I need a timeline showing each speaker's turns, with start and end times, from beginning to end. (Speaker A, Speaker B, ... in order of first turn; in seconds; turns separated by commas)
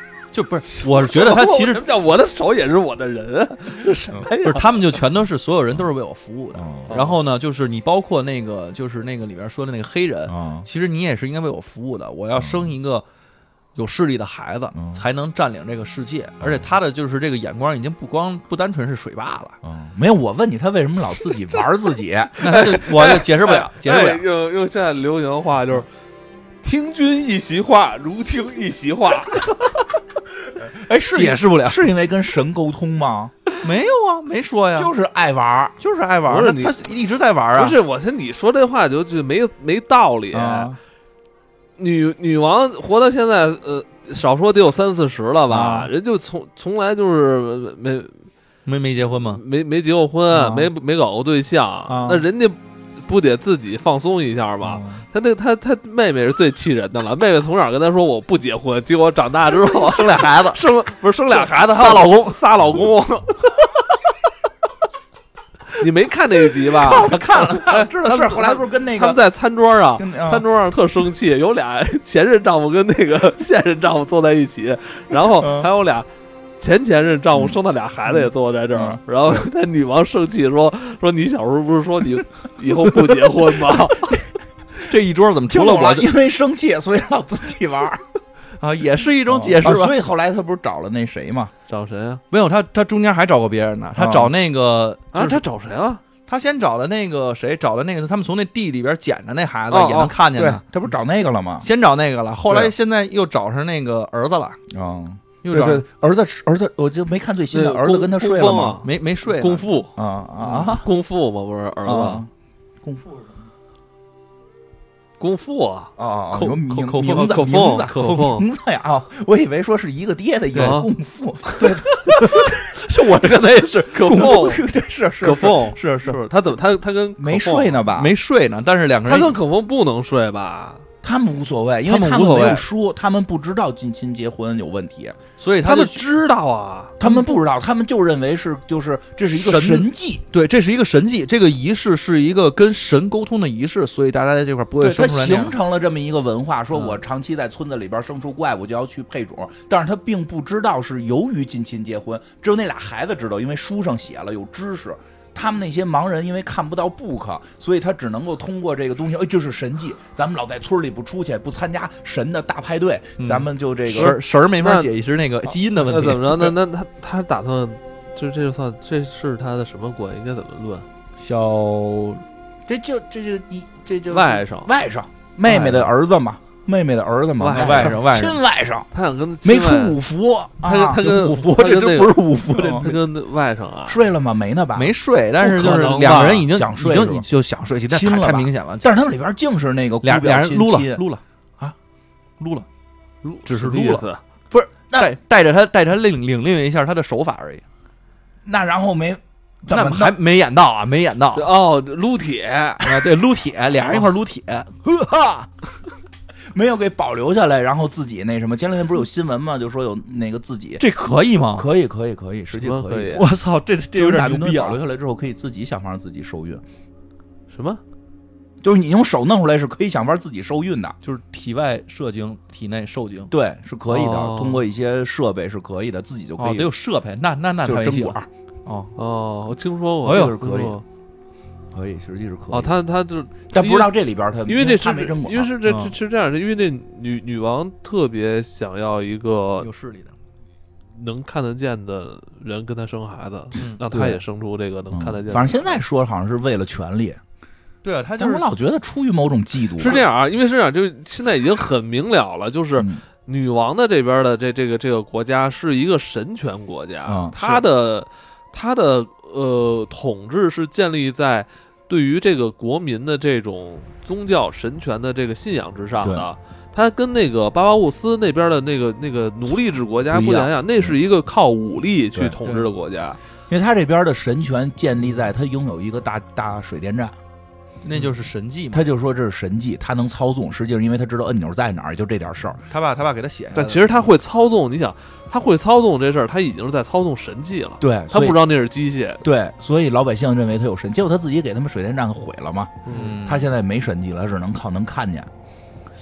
Speaker A: 0.3-1.9, Speaker B: 0.8-4.8, Speaker A: 4.4-13.1, Speaker C: 6.5-7.1, Speaker B: 6.9-7.1, Speaker C: 10.3-10.7, Speaker C: 12.4-12.7, Speaker A: 13.8-19.6, Speaker C: 14.8-15.0, Speaker C: 16.4-16.7, Speaker C: 19.6-22.5, Speaker A: 22.4-24.2, Speaker B: 22.4-25.9, Speaker B: 26.6-29.5, Speaker C: 30.6-33.4, Speaker A: 31.1-31.8, Speaker A: 33.6-34.9, Speaker C: 34.7-35.8, Speaker A: 35.8-37.8, Speaker B: 36.3-36.9, Speaker B: 37.6-40.7, Speaker C: 40.3-40.8, Speaker B: 41.8-48.3, Speaker C: 45.5-45.9, Speaker A: 48.7-49.4, Speaker B: 49.3-63.5, Speaker C: 50.3-50.7, Speaker C: 51.9-52.2, Speaker C: 54.6-55.0, Speaker A: 59.7-60.6, Speaker A: 61.3-62.4, Speaker B: 65.8-76.1, Speaker C: 66.8-69.2, Speaker C: 70.0-70.5, Speaker C: 75.1-75.7, Speaker B: 76.6-84.2, Speaker C: 77.3-79.5, Speaker C: 83.7-84.2, Speaker A: 84.8-86.1, Speaker C: 85.5-88.0, Speaker A: 88.6-90.0, Speaker C: 89.3-91.5, Speaker B: 91.7-92.2, Speaker A: 92.3-95.4, Speaker C: 94.0-94.3, Speaker B: 95.1-96.0, Speaker A: 96.3-100.6, Speaker B: 99.7-100.1, Speaker C: 100.3-101.7, Speaker A: 101.6-104.6, Speaker C: 102.5-102.7, Speaker C: 104.7-108.8, Speaker A: 105.4-105.8, Speaker B: 107.5-109.9, Speaker A: 108.8-109.7, Speaker C: 110.0-110.9, Speaker B: 110.5-112.2, Speaker C: 111.8-112.3, Speaker C: 112.8-113.3, Speaker B: 115.2-115.9, Speaker C: 116.0-122.6, Speaker A: 116.3-118.4, Speaker B: 117.1-118.5, Speaker B: 120.5-120.9, Speaker A: 121.6-124.5, Speaker B: 123.9-124.6, Speaker C: 124.1-126.1, Speaker B: 125.2-127.8, Speaker A: 125.8-126.2, Speaker C: 127.2-128.1, Speaker A: 128.0-129.4, Speaker B: 129.1-130.8, Speaker C: 131.0-135.2, Speaker A: 131.9-132.7, Speaker A: 135.4-136.0, Speaker B: 135.6-137.0, Speaker C: 137.0-140.2, Speaker A: 139.3-145.6, Speaker C: 144.8-164.2, Speaker A: 146.7-147.0, Speaker A: 163.2-166.6, Speaker B: 163.9-164.9, Speaker B: 165.9-170.9, Speaker A: 171.2-172.2, Speaker C: 172.7-178.9, Speaker B: 174.1-174.7, Speaker A: 175.4-175.9, Speaker B: 177.4-178.0, Speaker A: 177.5-178.4, Speaker B: 178.9-180.0, Speaker C: 179.4-181.1, Speaker B: 180.6-184.0, Speaker A: 181.0-183.0, Speaker C: 182.6-182.9, Speaker C: 183.9-184.9, Speaker A: 184.7-188.9, Speaker B: 185.4-186.5, Speaker C: 185.9-187.3, Speaker C: 187.9-191.0, Speaker A: 190.0-191.2, Speaker A: 192.4-192.7, Speaker B: 193.2-194.2, Speaker A: 193.4-197.6, Speaker C: 194.5-195.1, Speaker C: 198.4-200.2, Speaker A: 199.7-201.5, Speaker B: 201.3-202.9, Speaker A: 202.8-205.5, Speaker C: 206.5-210.8, Speaker A: 210.8-211.7, Speaker C: 211.5-213.2, Speaker B: 212.5-213.3, Speaker A: 213.1-214.8, Speaker C: 213.9-216.6, Speaker B: 217.5-217.8, Speaker C: 218.6-220.9, Speaker A: 221.0-223.3, Speaker C: 223.3-226.7, Speaker B: 223.9-224.6, Speaker A: 226.4-228.9, Speaker C: 227.6-228.3, Speaker B: 228.9-230.8, Speaker A: 230.1-230.3, Speaker C: 230.1-230.8, Speaker C: 231.7-232.7, Speaker B: 232.5-233.9, Speaker C: 233.5-235.5, Speaker B: 234.5-239.7, Speaker A: 235.6-235.9, Speaker A: 239.6-240.1, Speaker B: 240.9-245.8, Speaker A: 243.6-243.8, Speaker C: 243.9-244.2, Speaker C: 244.9-247.2, Speaker A: 247.8-248.5, Speaker C: 248.2-250.0, Speaker B: 249.8-273.2, Speaker C: 252.8-253.0, Speaker C: 257.1-257.6, Speaker C: 266.0-266.3, Speaker C: 270.1-270.9, Speaker A: 272.4-272.7, Speaker C: 273.5-277.2, Speaker A: 277.8-278.9, Speaker C: 278.7-282.6, Speaker A: 282.7-284.0, Speaker B: 283.5-289.2, Speaker C: 287.8-288.4, Speaker C: 289.2-295.3, Speaker B: 292.9-293.2, Speaker A: 292.9-293.5